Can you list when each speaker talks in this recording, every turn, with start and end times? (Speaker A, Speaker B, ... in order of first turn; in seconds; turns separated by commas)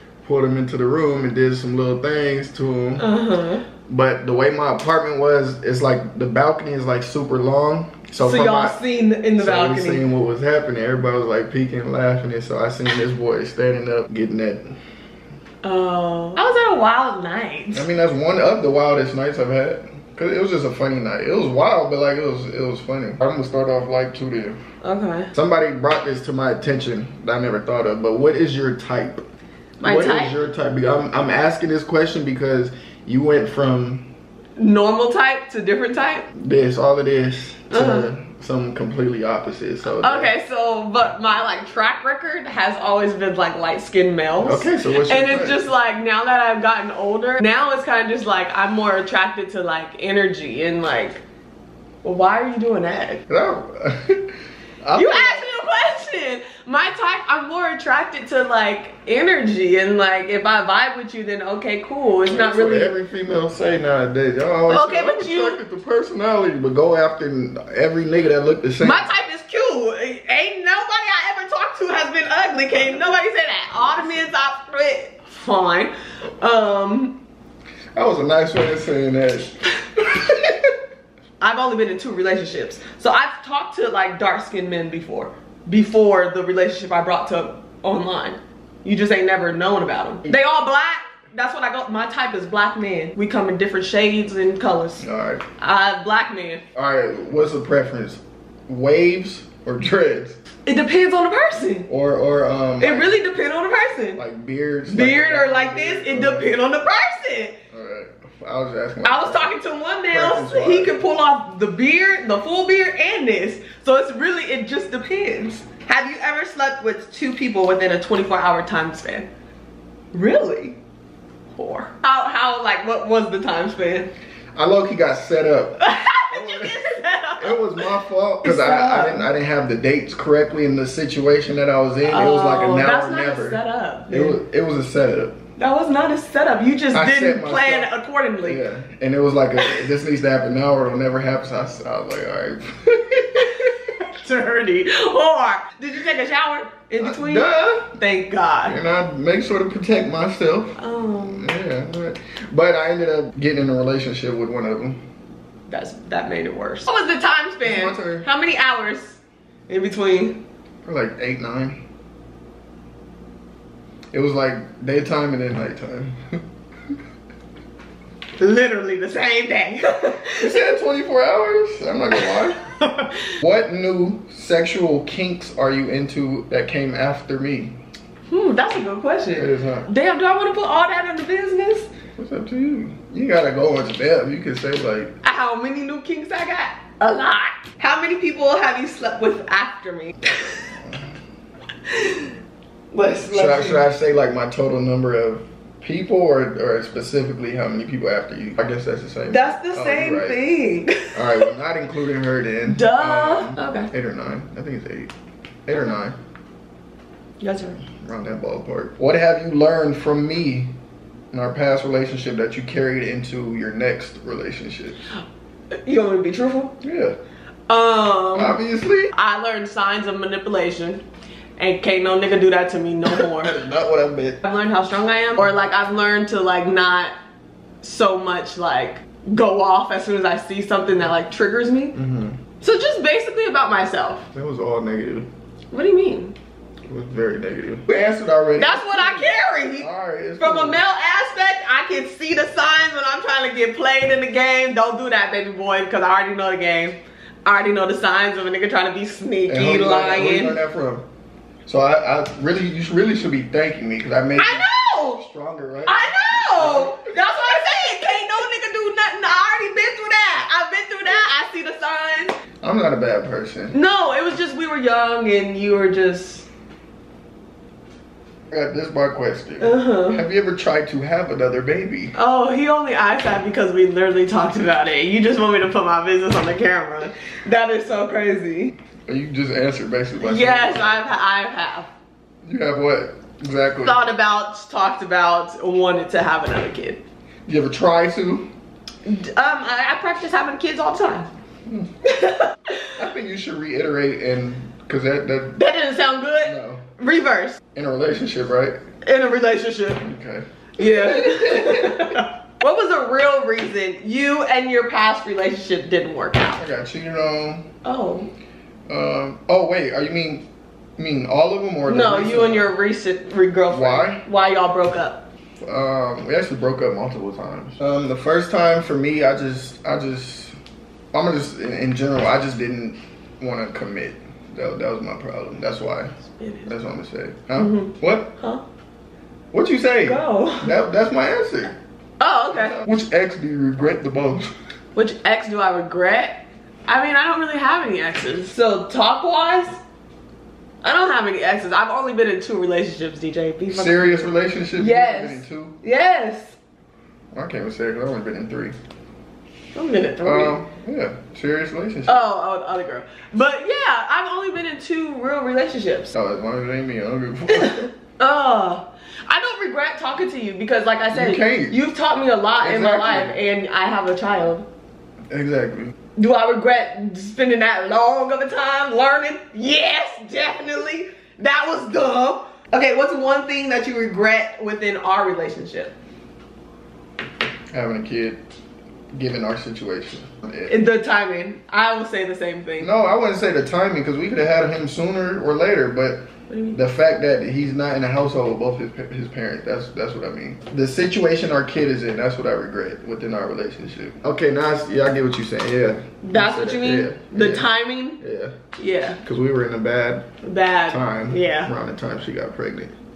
Speaker A: 0.2-3.1, Speaker B: 3.0-3.6, Speaker A: 3.9-8.8, Speaker B: 8.2-10.0, Speaker A: 9.4-14.7, Speaker B: 15.6-17.9, Speaker A: 17.7-24.6, Speaker B: 24.8-25.3, Speaker A: 25.3-29.2, Speaker B: 29.8-30.4, Speaker A: 29.8-34.1, Speaker B: 34.6-36.2, Speaker A: 36.3-40.3, Speaker B: 37.7-38.1, Speaker B: 39.9-51.2, Speaker A: 44.4-45.7, Speaker B: 52.0-53.2, Speaker A: 53.3-54.3, Speaker A: 54.8-55.5, Speaker B: 54.9-62.9, Speaker A: 62.2-69.1, Speaker B: 64.7-65.6, Speaker B: 68.8-77.2, Speaker A: 78.0-80.7, Speaker B: 81.4-95.0, Speaker A: 95.0-95.5, Speaker B: 95.6-96.6, Speaker A: 96.7-100.4, Speaker B: 100.6-101.9, Speaker A: 101.9-103.2, Speaker B: 102.8-104.2, Speaker A: 104.2-106.5, Speaker B: 104.9-107.6, Speaker A: 107.7-109.5, Speaker B: 109.0-119.3, Speaker A: 110.1-111.0, Speaker B: 120.1-120.8, Speaker B: 121.5-124.1, Speaker A: 124.5-135.4, Speaker B: 125.8-127.8, Speaker B: 128.4-129.3, Speaker B: 132.0-134.4, Speaker B: 135.6-138.6, Speaker A: 136.9-137.9, Speaker A: 138.4-143.8, Speaker B: 143.3-148.8, Speaker A: 147.0-147.9, Speaker A: 148.6-155.0, Speaker B: 150.8-151.5, Speaker B: 155.7-160.4, Speaker A: 157.6-158.2, Speaker A: 160.8-161.8, Speaker A: 164.1-166.2, Speaker B: 168.4-170.7, Speaker A: 170.4-172.6, Speaker B: 172.3-173.3, Speaker A: 173.4-177.8, Speaker B: 178.3-181.9, Speaker A: 179.3-179.9, Speaker A: 182.2-185.2, Speaker B: 185.2-190.5, Speaker A: 190.8-191.1, Speaker B: 191.9-192.3, Speaker B: 192.9-193.8, Speaker A: 193.3-200.4, Speaker B: 199.3-201.5, Speaker A: 201.1-205.1, Speaker B: 202.7-203.9, Speaker A: 205.7-206.2, Speaker B: 207.4-207.8, Speaker A: 208.0-210.7, Speaker A: 211.3-215.0, Speaker B: 215.7-216.7, Speaker A: 216.8-217.2, Speaker B: 217.7-218.6, Speaker A: 218.3-219.1, Speaker B: 219.1-221.0, Speaker B: 221.6-223.5, Speaker A: 223.1-224.4, Speaker B: 224.4-227.1, Speaker B: 227.8-231.9, Speaker A: 231.9-232.4, Speaker B: 232.6-234.3, Speaker A: 234.3-235.3, Speaker B: 235.7-236.3, Speaker A: 236.9-240.8, Speaker B: 238.6-250.6, Speaker A: 249.5-251.0, Speaker A: 251.7-257.2, Speaker B: 254.3-255.2, Speaker B: 255.8-262.4, Speaker A: 262.6-263.8, Speaker B: 263.7-266.5, Speaker A: 268.5-272.1, Speaker B: 269.6-270.2, Speaker B: 272.1-278.8, Speaker A: 279.1-281.1, Speaker B: 280.2-281.9, Speaker A: 282.4-284.0, Speaker B: 283.8-287.0, Speaker A: 287.5-288.5, Speaker B: 289.0-291.3, Speaker A: 291.6-291.9, Speaker B: 292.0-292.8, Speaker A: 292.9-295.6, Speaker B: 295.6-297.6, Speaker A: 296.4-296.8, Speaker A: 297.7-298.8, Speaker B: 299.0-300.0, Speaker A: 300.0-302.2, Speaker B: 300.8-306.6, Speaker A: 306.6-307.6, Speaker B: 307.8-308.3, Speaker A: 308.9-312.7, Speaker B: 311.9-315.2, Speaker A: 313.7-314.2, Speaker A: 315.6-320.6, Speaker A: 321.1-326.1, Speaker B: 326.2-326.7, Speaker A: 326.7-328.3, Speaker B: 327.6-328.6, Speaker A: 329.5-331.8, Speaker B: 330.0-330.8, Speaker B: 332.2-332.8, Speaker A: 332.5-334.5, Speaker B: 334.9-339.8, Speaker B: 340.8-346.6, Speaker A: 343.7-345.8, Speaker A: 347.3-348.8, Speaker B: 349.7-350.6, Speaker A: 350.2-352.2, Speaker B: 352.1-356.1, Speaker A: 356.1-357.9, Speaker B: 357.5-364.6, Speaker A: 361.1-361.8, Speaker A: 362.6-363.4, Speaker A: 365.3-365.9, Speaker B: 366.1-375.9, Speaker A: 377.7-378.4, Speaker A: 379.1-380.7, Speaker B: 380.6-382.9, Speaker A: 382.8-398.6, Speaker B: 386.5-386.8, Speaker B: 396.2-398.2, Speaker B: 398.8-399.2, Speaker A: 399.2-400.3, Speaker B: 400.4-401.7, Speaker A: 400.9-402.9